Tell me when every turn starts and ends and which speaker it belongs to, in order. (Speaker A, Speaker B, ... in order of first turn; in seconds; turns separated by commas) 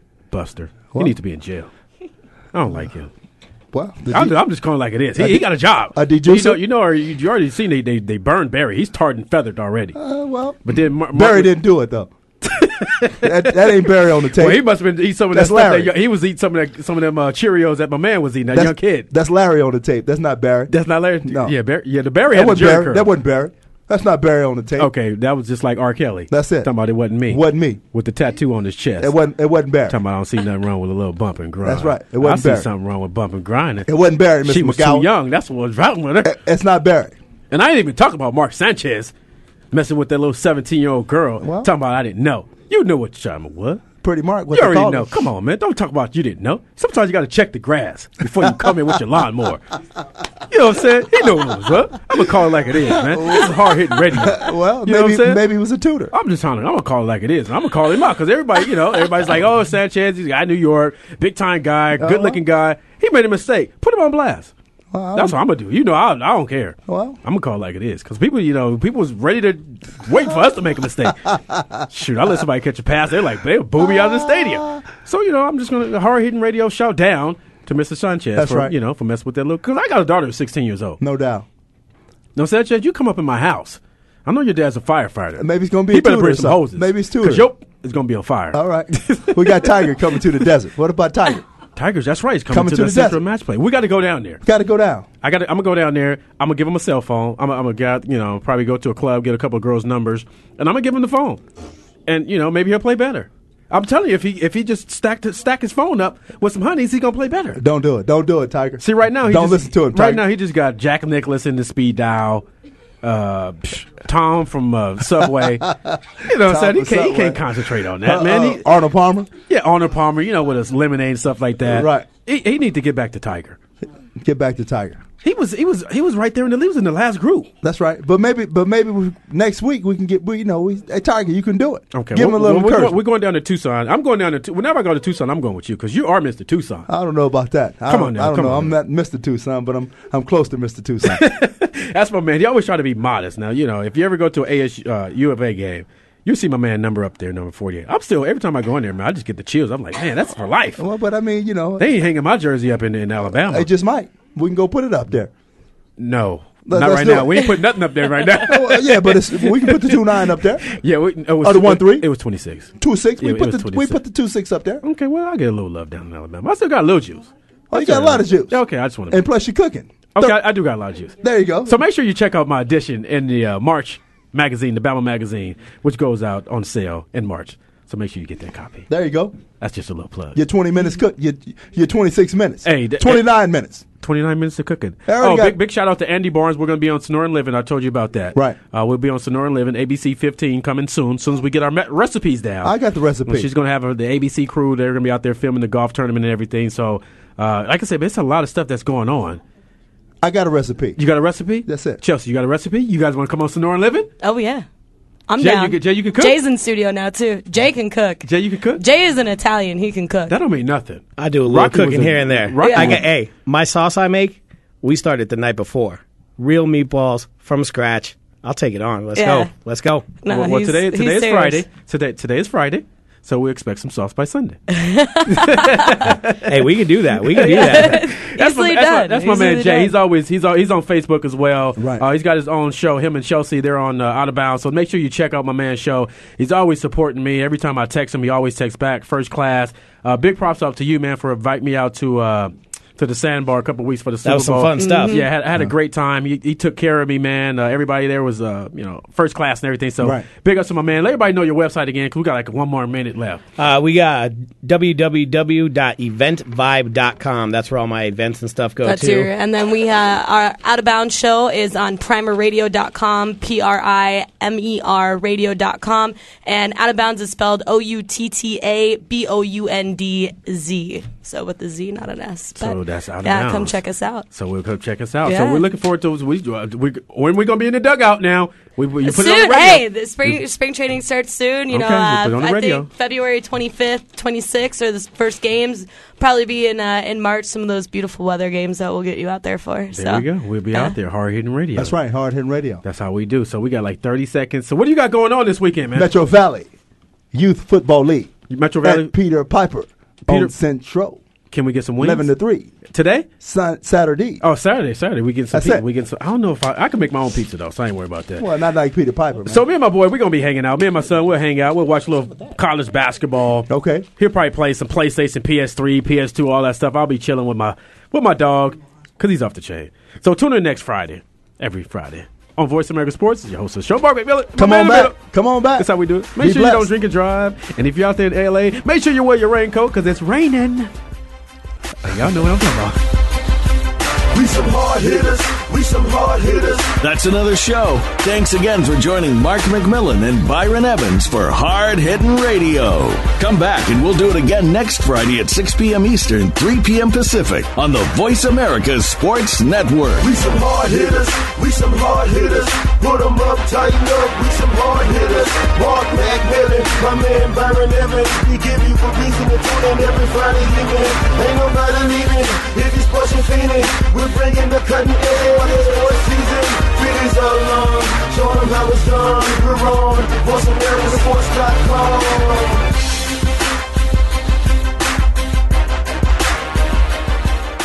Speaker A: 0.3-1.7, Speaker A: 2.5-3.1, Speaker B: 3.7-4.4, Speaker A: 4.1-9.9, Speaker B: 5.2-6.6, Speaker B: 9.9-12.1, Speaker A: 10.6-11.5, Speaker A: 12.6-13.7, Speaker B: 13.1-14.6, Speaker A: 14.2-19.1, Speaker B: 15.3-15.9, Speaker B: 18.5-21.5, Speaker A: 20.7-23.1, Speaker B: 22.3-24.9, Speaker A: 24.8-29.1, Speaker B: 26.3-26.7, Speaker B: 27.3-27.8, Speaker B: 29.0-30.0, Speaker A: 29.9-33.9, Speaker B: 31.6-32.7, Speaker B: 33.9-35.1, Speaker A: 34.4-36.4, Speaker B: 36.2-37.1, Speaker A: 37.5-39.1, Speaker A: 39.7-43.9, Speaker B: 41.4-41.7, Speaker B: 44.0-45.3, Speaker A: 44.5-49.6, Speaker A: 50.5-55.4, Speaker B: 52.9-56.1, Speaker A: 56.1-64.5, Speaker B: 62.0-62.4, Speaker B: 64.9-65.4, Speaker A: 65.1-81.0, Speaker B: 66.9-67.2, Speaker B: 73.8-74.8, Speaker B: 78.3-78.7, Speaker B: 81.0-81.5, Speaker A: 82.3-90.0, Speaker B: 85.4-87.5, Speaker B: 88.5-91.4, Speaker A: 91.8-94.4, Speaker B: 92.5-93.2, Speaker B: 94.4-95.1, Speaker A: 95.2-101.4, Speaker A: 102.1-107.6, Speaker B: 107.5-110.2, Speaker A: 108.8-112.4, Speaker A: 113.0-118.7, Speaker B: 115.7-117.4, Speaker B: 118.0-119.3, Speaker A: 119.4-123.6, Speaker B: 121.6-122.1, Speaker B: 124.2-125.0, Speaker A: 125.2-127.5, Speaker B: 127.6-133.0, Speaker A: 131.9-136.9, Speaker B: 136.9-141.2, Speaker A: 137.9-138.7, Speaker A: 141.0-150.8, Speaker B: 150.8-151.8, Speaker A: 151.8-153.7, Speaker B: 153.5-155.3, Speaker A: 156.0-164.0, Speaker B: 156.7-157.5, Speaker B: 158.3-160.7, Speaker B: 161.4-162.1, Speaker B: 162.8-164.8, Speaker A: 164.8-169.2, Speaker B: 167.7-170.4, Speaker A: 170.1-178.9, Speaker B: 171.2-171.8, Speaker B: 178.9-179.3, Speaker A: 179.6-180.4, Speaker B: 180.3-183.8, Speaker A: 182.6-183.3, Speaker A: 184.0-192.7, Speaker B: 185.1-185.6, Speaker B: 192.6-193.5, Speaker A: 193.2-199.4, Speaker B: 200.2-201.0, Speaker A: 201.0-204.1, Speaker B: 201.7-202.0, Speaker C: 204.2-204.6, Speaker C: 205.3-210.3, Speaker A: 205.4-206.3, Speaker A: 208.2-208.8, Speaker A: 210.3-213.0, Speaker D: 211.2-220.2, Speaker C: 212.6-213.0, Speaker C: 219.1-219.5, Speaker C: 220.2-221.6, Speaker A: 220.3-224.6, Speaker C: 224.7-226.0, Speaker A: 225.2-226.7, Speaker D: 226.4-228.0, Speaker A: 227.2-253.4, Speaker C: 227.3-229.9, Speaker B: 231.8-232.0, Speaker D: 244.2-245.2, Speaker C: 244.8-245.3, Speaker B: 250.0-250.2, Speaker D: 253.6-259.3, Speaker C: 258.8-274.2, Speaker A: 272.6-273.8, Speaker A: 274.3-280.4, Speaker C: 275.2-275.6, Speaker C: 279.0-290.9, Speaker A: 281.7-282.9, Speaker A: 289.9-291.9, Speaker B: 291.8-292.8, Speaker A: 292.8-296.1, Speaker B: 295.9-296.7, Speaker B: 297.3-301.2, Speaker A: 298.5-299.1, Speaker A: 300.3-300.5, Speaker A: 301.5-302.3, Speaker B: 302.0-302.7, Speaker A: 302.9-303.3, Speaker B: 303.4-304.4, Speaker A: 304.4-308.5, Speaker B: 305.5-305.8, Speaker B: 308.4-309.6, Speaker A: 309.5-325.1, Speaker B: 313.7-314.1, Speaker B: 324.6-326.9, Speaker A: 325.8-330.9, Speaker A: 332.0-333.0, Speaker E: 334.3-337.0, Speaker F: 337.0-350.2, Speaker E: 350.2-372.8